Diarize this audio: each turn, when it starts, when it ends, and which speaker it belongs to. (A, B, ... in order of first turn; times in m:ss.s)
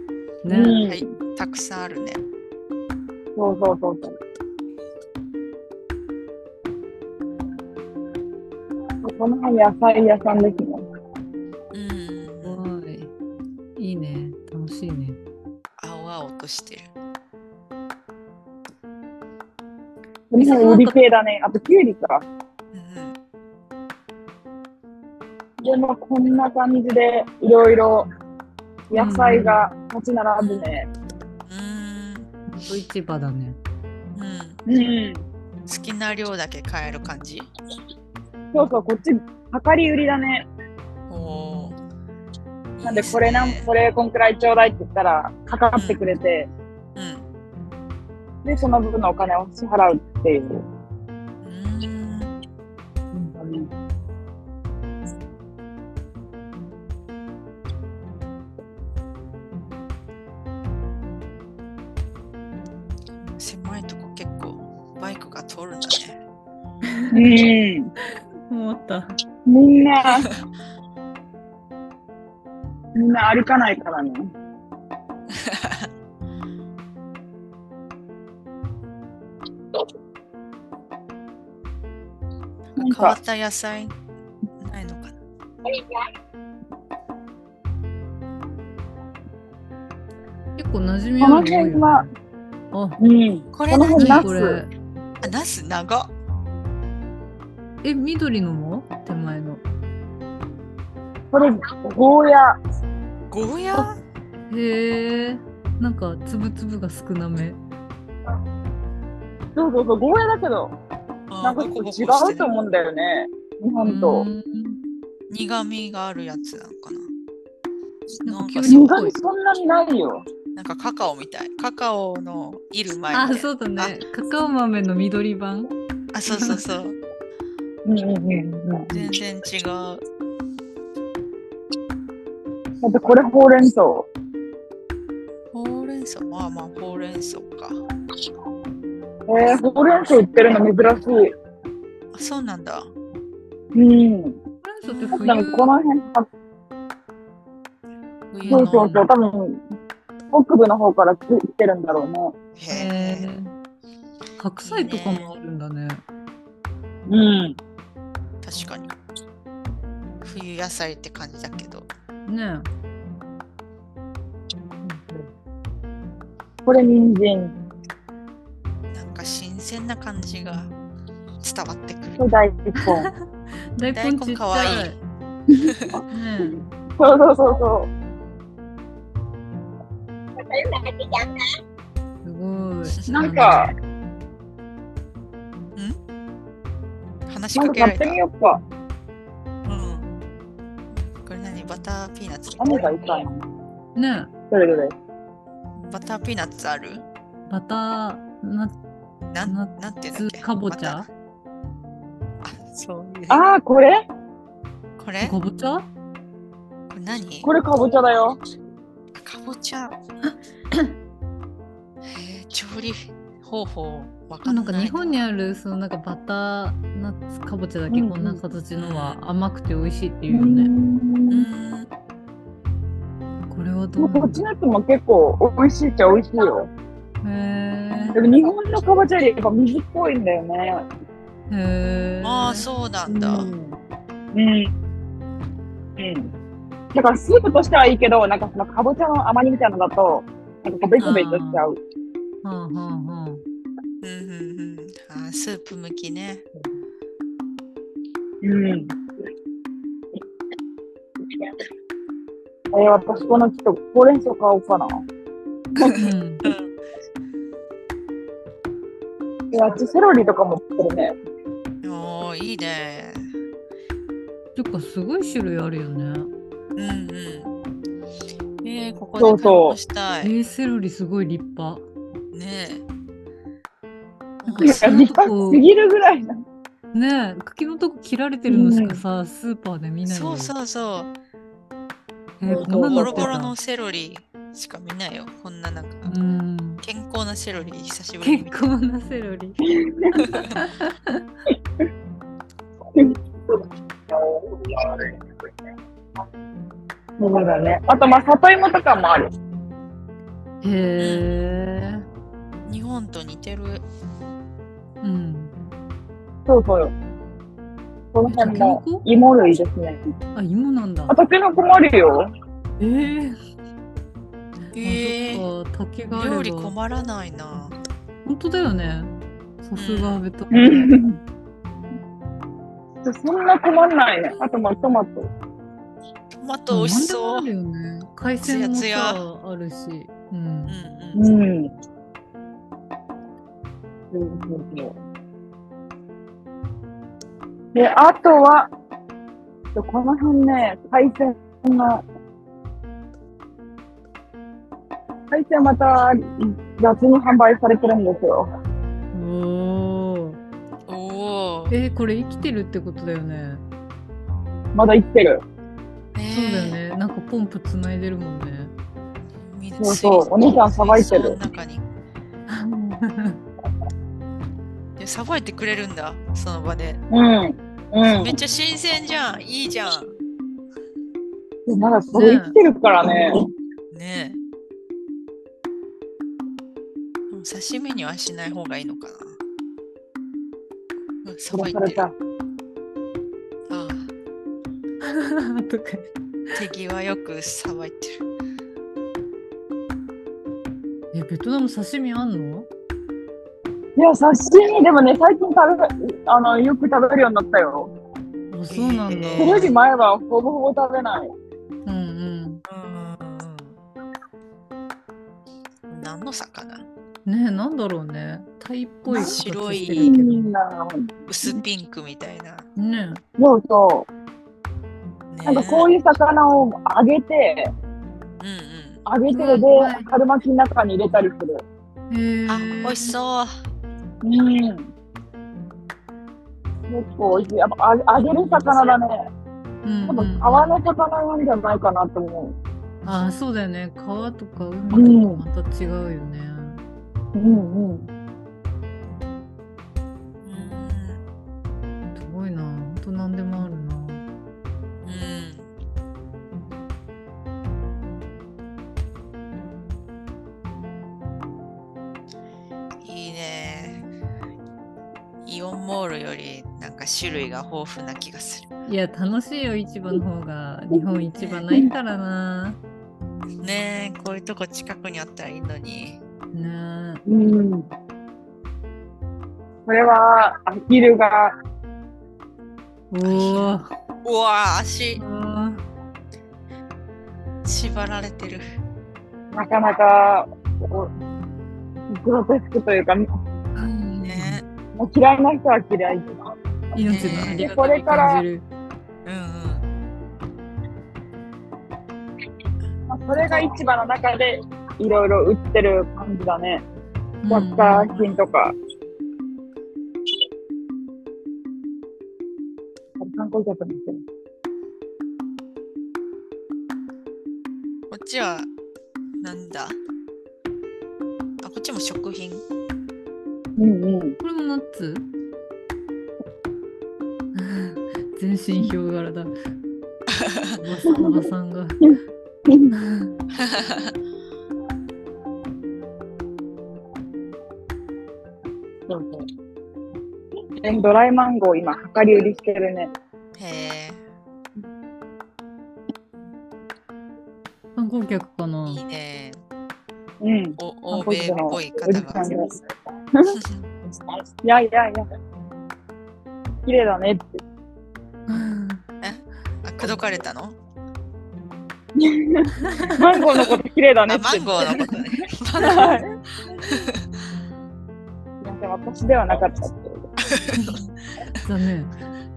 0:00.4-0:00.8 A
0:00.5-0:01.1 B
0:00.8-0:02.2 C
0:03.4-0:04.2 B
0:09.0-0:10.8 B
0:11.7-0:12.6 C
0:12.4-0:13.1 A
0:13.8-0:15.2 A
0:15.8-0:16.9 C
0:20.3-0:22.2 B
0:20.4-0:21.0 A
0:22.7-0:23.1 C
0:25.6-0:28.1 B
0:28.9-0:30.9 B
0:28.9-0:29.7 A
0:30.4-0:30.7 C
0:31.4-0:32.3 C
0:32.5-0:33.6 A
0:34.1-0:34.6 C
0:34.7-0:35.2 B
0:35.7-0:37.5 C
0:38.5-0:40.5 B
0:41.1-0:41.8 C
0:42.8-0:43.7 C
0:42.8-0:46.5 B
0:45.7-0:46.0 C
0:46.9-0:47.2 C
0:48.4-0:50.6 B
0:51.4-0:52.4 C
0:53.1-0:53.7 B
1:03.2-1:06.2 C
1:06.9-1:07.3 A
1:07.1-1:07.9 B
1:08.0-1:09.1 A
1:09.5-1:10.3 B
1:12.9-1:14.3 B
1:15.3-1:15.9 C
1:22.7-1:24.0 C
1:22.8-1:23.2 B
1:24.6-1:25.2 C
1:30.6-1:32.1 A
1:31.2-1:32.1 B
1:32.7-1:33.0 A
1:33.0-1:34.6 B
1:33.5-1:34.3 C
1:33.9-1:34.7 A
1:35.2-1:36.1 C
1:37.8-1:39.6 A
1:41.3-1:42.6 B
1:43.3-1:44.0 C
1:44.5-1:47.6 A
1:49.6-1:50.7 B
1:51.3-1:52.5 C
1:51.4-1:54.2 B
1:53.8-1:54.8 A
1:55.3-1:57.1 C
1:58.2-1:59.1 A
1:58.2-1:59.0 C
1:58.6-2:00.2 B
2:00.5-2:03.9 C
2:03.1-2:05.7 A
2:06.1-2:07.0 C
2:06.3-2:06.6 A
2:07.8-2:09.0 B
2:08.9-2:10.0 C
2:12.8-2:14.1 B
2:15.5-2:17.8 C
2:19.3-2:21.3 B
2:22.1-2:22.9 C
2:23.7-2:24.4 B
2:24.6-2:25.7 A
2:24.9-2:25.3 C
2:25.1-2:26.3 B
2:28.3-2:29.0 C
2:28.4-2:29.0 A
2:28.5-2:29.6 B
2:30.3-2:32.4 B
2:32.6-2:33.3 C
2:32.7-2:33.5 A
2:34.4-2:36.0 A
2:34.6-2:35.3 C
2:37.1-2:37.6 B
2:38.4-2:38.9 C
2:40.2-2:41.9 C
2:42.2-2:42.7 A
2:44.8-2:45.3 A
2:46.6-2:47.6 B
2:48.9-2:50.7 C
2:51.4-2:52.2 C
2:52.2-2:53.1 B
2:52.8-2:55.0 A
2:53.9-2:54.9 C
2:55.5-2:55.8 B
2:56.1-2:56.6 A
2:56.4-2:57.9 B
3:00.5-3:01.3 B
3:02.2-3:03.6 A
3:02.9-3:03.3 C
3:03.1-3:03.7 B
3:07.3-3:08.2 C
3:07.5-3:08.6 B
3:09.6-3:10.1 C
3:10.9-3:12.8 C
3:12.6-3:13.4 B
3:14.0-3:14.3 A
3:14.5-3:14.9 B
3:15.8-3:17.0 C
3:17.5-3:18.7 A
3:19.3-3:21.0 C
3:19.4-3:21.1 A
3:22.4-3:23.4 C
3:23.3-3:24.0 B
3:25.0-3:25.3 C
3:25.2-3:25.9 A
3:26.9-3:27.5 C
3:27.4-3:28.4 B
3:29.1-3:30.0 C
3:32.0-3:35.2 C
3:34.4-3:40.7 A
3:37.9-3:38.4 B
3:38.8-3:39.2 C
3:40.3-3:41.5 B
3:41.3-3:41.9 C
3:43.5-3:44.4 A
3:44.0-3:46.7 B
3:47.2-3:48.2 A
3:48.1-3:50.8 B
3:51.5-3:52.6 A
3:52.2-3:53.5 C
3:53.1-3:53.8 B
3:54.3-3:54.7 B
3:56.0-3:56.3 B
3:56.9-4:01.8 B
4:01.0-4:01.6 A
4:02.4-4:03.4 A
4:04.0-4:06.4 C
4:08.4-4:09.0 B
4:12.7-4:15.0 B
4:15.8-4:16.6 C
4:15.9-4:16.4 A
4:19.5-4:21.1 B
4:21.8-4:23.3 C
4:24.6-4:26.3 A
4:26.7-4:27.5 C
4:28.6-4:30.3 C
4:29.2-4:29.8 B
4:30.2-4:31.8 A
4:32.3-4:32.8 C
4:34.4-4:35.0 C
4:34.4-4:35.6 A
4:34.6-4:36.4 B
4:36.9-4:40.5 A
4:38.5-4:39.0 B
4:40.0-4:41.1 C
4:42.4-4:43.5 A
4:42.5-4:43.3 B
4:42.6-4:46.1 C
4:46.0-4:46.8 A
4:46.8-4:48.7 C
4:48.2-4:49.6 A
4:49.7-4:50.2 B
4:50.1-4:51.2 A
4:50.2-4:50.5 C
4:52.9-4:53.6 B
4:54.2-4:55.1 B
4:57.2-4:59.3 B
5:00.6-5:02.0 A
5:01.0-5:01.3 C
5:02.6-5:03.8 C
5:05.0-5:05.5 A
5:06.4-5:06.9 B
5:08.1-5:10.0 B
5:08.2-5:09.0 A
5:10.3-5:11.1 A
5:11.1-5:12.3 B
5:12.8-5:13.4 A
5:14.7-5:15.4 C
5:14.8-5:16.7 A
5:16.1-5:17.7 C
5:18.2-5:20.9 A
5:19.8-5:20.2 C
5:20.5-5:21.2 B
5:23.0-5:25.3 B
5:26.3-5:27.5 C
5:26.7-5:30.8 A
5:28.4-5:29.2 C
5:30.7-5:31.3 C
5:31.1-5:31.7 B
5:34.1-5:34.9 B
5:37.7-5:38.7 B
5:39.7-5:42.0 B
5:45.3-5:48.5 B
5:49.1-5:50.4 A
5:50.9-5:51.7 C
5:51.7-5:53.6 A
5:54.7-5:55.4 B
5:56.1-5:56.8 C
5:56.3-5:58.7 A
5:59.3-6:01.8 C
5:59.8-6:01.4 B
6:02.5-6:03.4 A
6:05.0-6:07.0 C
6:07.1-6:08.4 B
6:08.0-6:10.1 C
6:11.7-6:13.4 B
6:12.1-6:12.6 A
6:13.9-6:14.4 C
6:17.3-6:19.4 C
6:21.2-6:22.0 C
6:21.5-6:22.1 B
6:23.7-6:24.1 C
6:25.0-6:26.1 A
6:26.5-6:28.2 C
6:31.1-6:32.7 A
6:34.0-6:37.9 B
6:38.5-6:39.7 A
6:38.7-6:39.8 C
6:39.4-6:41.3 B
6:41.8-6:42.6 A
6:42.6-6:43.8 C
6:45.9-6:46.8 C
6:47.2-6:50.5 A
6:49.1-6:50.1 C
6:49.9-6:51.5 B
6:51.3-6:52.7 C
6:52.8-6:53.2 A
6:53.4-6:54.1 B
6:55.3-6:55.9 C
6:55.4-6:57.7 B
6:58.4-6:59.0 C
6:59.0-7:01.6 B
6:59.3-7:00.1 A
7:02.1-7:03.1 A
7:02.5-7:03.6 C
7:04.2-7:04.9 B
7:06.9-7:09.3 B
7:09.8-7:10.5 A
7:10.1-7:12.5 B
7:13.0-7:16.8 A
7:14.9-7:15.4 B
7:17.3-7:18.1 B
7:20.4-7:21.2 C
7:22.1-7:24.2 A
7:25.0-7:25.7 C
7:33.0-7:34.0 C
7:35.4-7:38.7 C
7:38.9-7:42.8 A
7:43.6-7:46.2 C
7:46.5-7:47.2 A
7:47.3-7:47.9 B
7:49.8-7:51.6 B
7:53.1-7:53.9 A
7:53.2-7:53.7 C
7:54.2-7:55.2 C
7:55.2-7:55.8 A
7:57.6-7:58.6 C
7:59.5-8:01.1 B
8:02.1-8:03.2 B
8:03.7-8:04.6 A
8:04.2-8:04.6 C
8:05.0-8:06.3 B
8:06.9-8:08.6 A
8:07.0-8:08.4 B
8:07.0-8:07.6 C
8:09.2-8:09.8 C
8:13.1-8:16.8 B
8:13.3-8:13.7 C
8:17.4-8:18.1 A
8:17.5-8:18.7 B
8:23.2-8:24.2 B
8:28.1-8:28.7 C
8:29.4-8:30.0 C
8:31.6-8:32.6 C
8:33.8-8:34.4 B
8:34.4-8:35.3 A
8:37.5-8:39.5 A
8:40.3-8:40.7 C
8:40.8-8:42.1 A
8:41.1-8:41.4 B
8:42.7-8:42.9 B
8:42.9-8:43.3 A
8:43.5-8:44.1 C
8:49.1-8:49.4 B
8:50.8-8:53.1 B
8:53.6-8:54.2 C
8:58.0-8:59.0 A
8:58.9-8:59.6 C
9:00.4-9:02.7 B
9:00.8-9:02.4 C
9:03.3-9:03.6 B
9:03.5-9:03.9 C
9:04.6-9:05.2 B
9:06.8-9:07.6 B
9:08.5-9:09.0 A
9:09.2-9:10.8 C
9:12.2-9:15.2 B
9:12.8-9:13.2 A
9:14.3-9:16.2 C
9:15.8-9:16.3 B
9:16.8-9:17.2 C
9:18.6-9:20.3 B
9:20.4-9:21.0 C
9:21.5-9:22.1 A